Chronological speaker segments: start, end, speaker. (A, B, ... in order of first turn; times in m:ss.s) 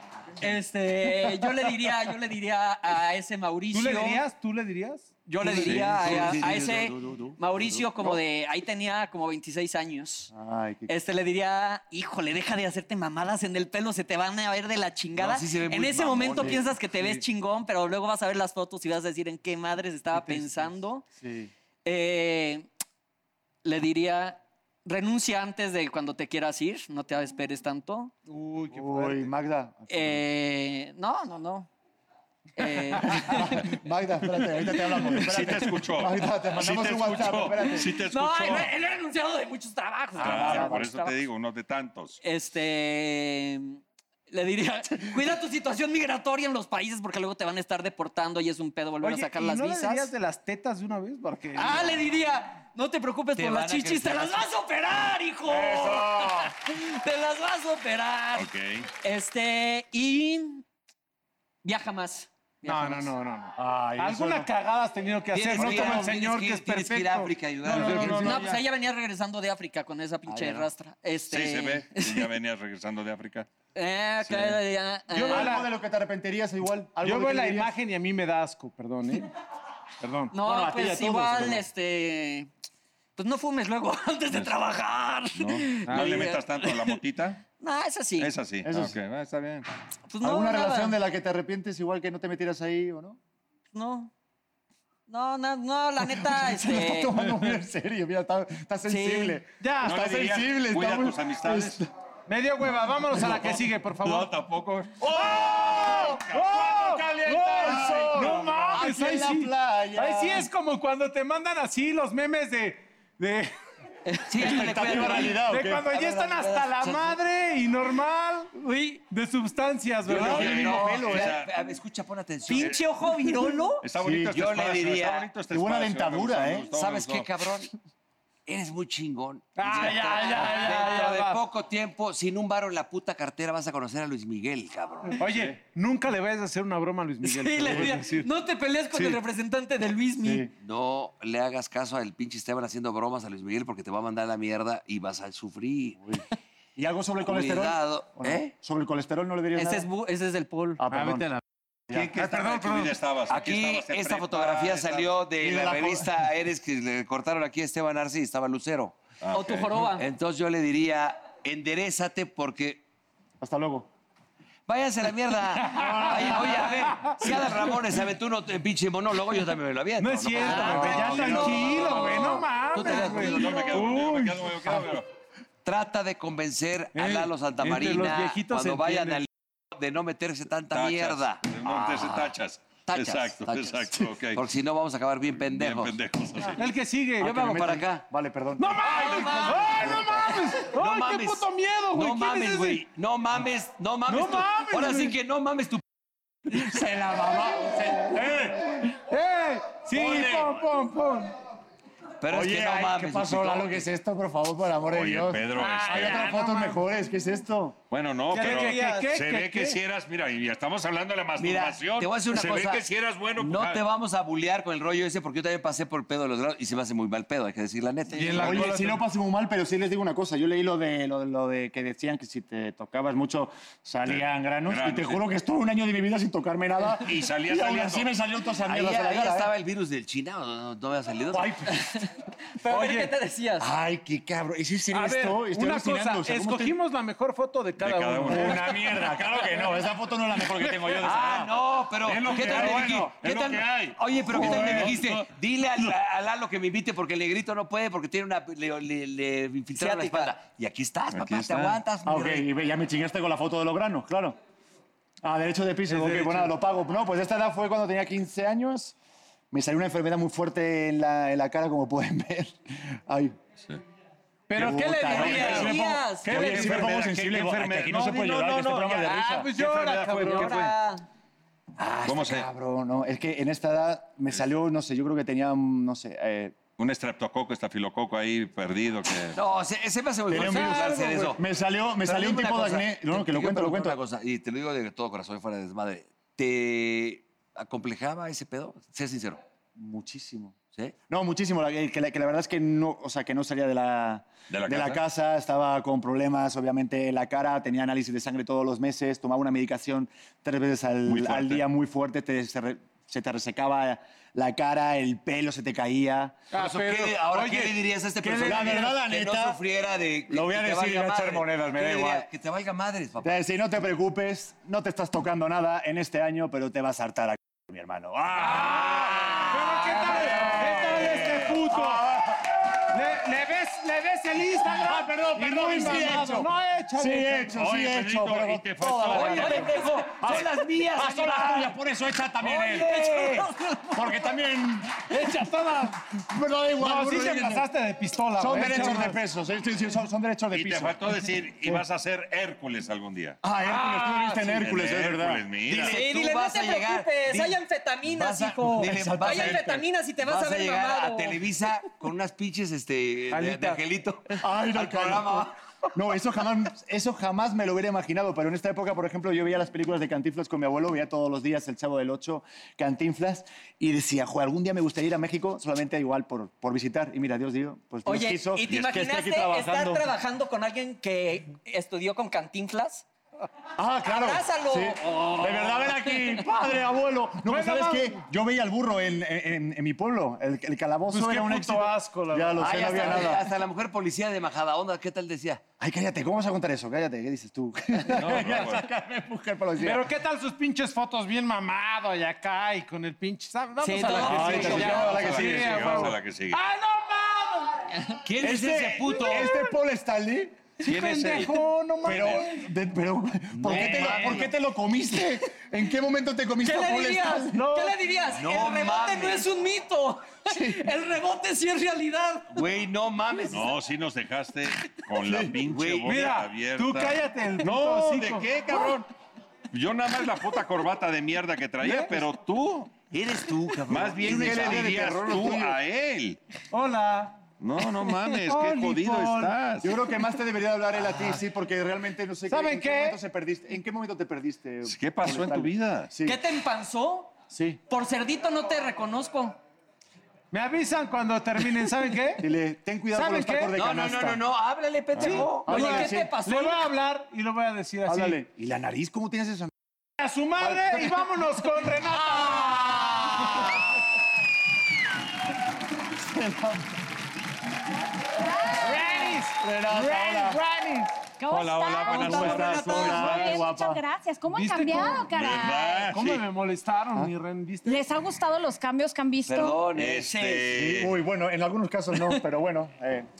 0:00.4-0:04.2 A
0:03.7-0:06.2 B
0:05.2-0:10.3 A
0:05.4-0:07.8 C
0:10.3-0:10.9 D
0:10.9-0:21.0 A
0:15.2-0:16.6 C
0:16.4-0:16.6 D
0:21.2-0:21.5 D
0:21.8-0:22.7 A
0:23.6-0:28.1 A
0:28.3-0:29.3 B
0:28.7-0:30.2 D
0:29.9-0:31.7 A
0:32.6-0:33.7 A
0:33.0-0:37.9 D
0:35.1-0:38.7 E
0:37.6-0:41.2 A
0:40.2-0:40.9 D
0:40.2-0:42.2 E
0:42.2-0:50.1 A
0:49.0-0:52.0 B
0:51.5-0:58.5 A
0:53.4-0:54.5 C
0:55.4-0:56.5 D
0:58.3-0:58.9 E
0:59.0-1:00.6 A
1:01.6-1:03.1 A
1:02.6-1:08.4 B
1:03.6-1:04.5 D
1:05.3-1:08.4 C
1:05.6-1:06.3 D
1:07.7-1:08.6 E
1:08.2-1:12.3 A
1:10.3-1:10.7 D
1:11.3-1:13.5 E
1:13.7-1:15.5 A
1:14.2-1:14.6 E
1:15.1-1:15.7 B
1:15.2-1:17.7 D
1:17.0-1:19.3 B
1:20.0-1:20.3 B
1:20.3-1:22.5 A
1:20.4-1:21.6 D
1:23.2-1:27.0 A
1:24.3-1:24.6 E
1:25.3-1:27.4 E
1:25.8-1:26.3 B
1:27.6-1:28.3 A
1:28.2-1:29.6 E
1:28.6-1:29.0 D
1:30.1-1:31.0 A
1:30.2-1:33.2 D
1:33.7-1:34.1 A
1:35.1-1:37.2 A
1:36.0-1:41.9 D
1:38.9-1:39.4 A
1:39.6-1:40.0 B
1:39.8-1:41.8 E
1:42.3-1:44.4 B
1:43.1-1:46.5 E
1:45.0-1:53.5 B
1:45.1-1:50.5 D
1:54.0-1:54.6 A
1:54.3-1:57.2 C
1:54.4-1:55.9 D
1:54.4-1:58.5 B
1:58.5-1:59.0 A
1:59.1-2:01.2 B
2:00.0-2:02.8 C
2:00.1-2:01.6 E
2:00.2-2:01.4 D
2:02.5-2:03.8 A
2:02.5-2:02.8 E
2:03.8-2:07.3 E
2:04.0-2:04.4 D
2:04.3-2:05.3 C
2:05.5-2:06.7 D
2:06.7-2:07.7 C
2:08.4-2:15.2 C
2:09.5-2:11.4 B
2:10.2-2:10.7 A
2:15.2-2:18.3 B
2:17.2-2:20.5 A
2:17.6-2:18.0 D
2:18.9-2:19.2 B
2:20.2-2:20.5 D
2:20.6-2:26.0 C
2:26.8-2:29.9 D
2:27.2-2:28.5 C
2:29.5-2:30.8 A
2:30.8-2:31.4 D
2:30.9-2:31.4 B
2:31.9-2:32.9 D
2:31.9-2:35.2 E
2:33.3-2:39.0 C
2:35.4-2:36.1 D
2:39.2-2:39.8 E
2:39.3-2:40.1 A
2:39.9-2:42.8 C
2:43.4-2:43.9 D
2:44.7-2:53.9 C
2:45.7-2:46.8 D
2:45.8-2:47.4 B
2:50.0-2:54.9 B
2:50.6-2:51.3 D
2:51.3-2:51.7 E
2:52.9-2:55.1 E
2:55.6-3:02.3 C
2:56.9-2:59.2 B
3:00.7-3:04.5 E
3:02.9-3:06.0 C
3:05.4-3:06.6 E
3:06.4-3:07.4 B
3:07.2-3:08.0 C
3:07.2-3:10.3 D
3:08.6-3:12.8 B
3:08.8-3:10.0 C
3:10.6-3:15.8 C
3:14.1-3:15.2 B
3:16.5-3:21.3 B
3:18.1-3:18.9 D
3:19.9-3:20.6 D
3:22.2-3:23.8 C
3:22.3-3:27.8 D
3:24.9-3:26.3 E
3:25.5-3:26.8 B
3:27.9-3:33.8 E
3:28.3-3:29.8 B
3:31.4-3:38.7 C
3:38.1-3:39.0 B
3:38.4-3:49.5 D
3:44.1-3:45.2 E
3:47.0-3:48.1 E
3:48.6-3:51.5 C
3:51.3-3:52.0 D
3:51.8-3:52.1 A
3:52.6-3:53.7 A
3:52.6-3:53.1 B
3:53.6-3:56.7 D
3:54.9-3:59.7 B
3:57.8-3:58.7 E
3:58.2-4:03.1 D
4:00.5-4:01.0 B
4:01.0-4:12.4 C
4:02.0-4:05.3 E
4:04.3-4:05.0 D
4:09.8-4:10.3 A
4:11.1-4:11.8 E
4:12.0-4:14.3 D
4:15.2-4:18.9 D
4:15.9-4:16.5 B
4:19.5-4:23.4 D
4:24.5-4:25.7 B
4:24.5-4:29.5 D
4:25.0-4:26.6 A
4:25.1-4:30.5 E
4:26.2-4:27.0 B
4:28.9-4:30.8 B
4:30.2-4:30.6 D
4:30.2-4:31.0 A
4:31.8-4:32.4 C
4:32.0-4:32.5 E
4:32.2-4:36.6 D
4:36.8-4:39.4 E
4:39.3-4:41.4 C
4:40.3-4:44.0 D
4:40.3-4:41.0 B
4:42.0-4:49.4 C
4:49.8-4:50.6 D
4:51.1-5:06.5 D
4:54.5-4:55.0 E
5:01.1-5:01.6 E
5:06.5-5:07.8 B
5:06.5-5:13.3 C
5:08.2-5:09.6 D
5:08.4-5:08.9 B
5:10.3-5:12.3 D
5:13.2-5:22.5 D
5:18.5-5:22.1 B
5:19.0-5:19.4 E
5:20.2-5:21.6 E
5:22.9-5:27.7 B
5:24.7-5:33.4 D
5:27.5-5:29.7 E
5:29.1-5:31.7 C
5:29.2-5:30.6 A
5:32.5-5:33.5 C
5:32.8-5:33.5 B
5:33.9-5:35.3 D
5:35.0-5:36.2 B
5:36.2-5:37.7 D
5:36.8-5:39.2 B
5:38.4-5:41.0 D
5:40.5-5:43.4 E
5:43.4-5:45.4 D
5:43.6-5:44.7 B
5:44.6-5:46.0 E
5:45.6-5:55.5 C
5:45.8-5:51.4 A
5:48.5-5:49.8 D
5:53.3-5:53.8 B
5:54.4-6:10.0 D
6:08.0-6:13.0 A
6:13.8-6:23.5 D
6:14.0-6:16.0 A
6:17.4-6:18.2 B
6:21.1-6:23.3 B
6:22.6-6:25.6 C
6:25.8-6:30.1 D
6:28.1-6:28.9 E
6:29.8-6:37.9 B
6:33.8-6:35.2 A
6:34.1-6:35.0 C
6:34.2-6:36.1 D
6:34.4-6:36.6 E
6:38.2-6:39.5 C
6:38.4-6:40.6 D
6:39.0-6:39.7 B
6:40.8-6:42.7 B
6:40.9-6:41.5 E
6:42.0-6:47.6 D
6:43.6-6:44.4 C
6:43.6-6:44.4 B
6:46.6-6:52.6 A
6:47.5-6:48.0 B
6:48.3-6:49.5 C
6:50.5-6:50.8 D
6:52.5-6:53.8 C
6:53.5-6:59.1 E
6:55.2-6:55.5 D
6:55.6-6:56.1 C
6:56.0-6:58.9 B
6:59.7-7:03.0 E
7:01.8-7:02.2 B
7:03.1-7:05.2 C
7:03.9-7:06.4 E
7:04.2-7:05.8 D
7:06.7-7:07.4 B
7:07.6-7:10.0 E
7:08.0-7:09.6 B
7:09.8-7:16.4 D
7:12.5-7:13.2 B
7:14.8-7:16.1 E
7:16.2-7:17.3 A
7:17.5-7:17.8 D
7:17.9-7:19.6 A
7:20.5-7:22.5 B
7:22.4-7:24.4 D
7:23.1-7:23.8 B
7:23.8-7:25.8 C
7:25.2-7:28.4 B
7:25.6-7:26.3 D
7:25.7-7:26.9 A
7:28.1-7:29.7 D
7:30.2-7:33.7 B
7:30.6-7:31.2 D
7:32.2-7:33.8 D
7:36.2-7:36.9 D
7:38.4-7:39.4 F
7:38.8-7:41.2 B
7:39.6-7:40.6 D
7:41.4-7:46.2 F
7:41.5-7:43.7 E
7:42.0-7:43.0 A
7:42.2-7:44.0 D
7:44.5-7:45.4 B
7:45.3-7:46.4 E
7:46.1-7:48.0 B
7:47.8-7:49.9 F
7:49.4-7:50.8 C
7:49.9-7:51.1 E
7:50.7-7:53.3 D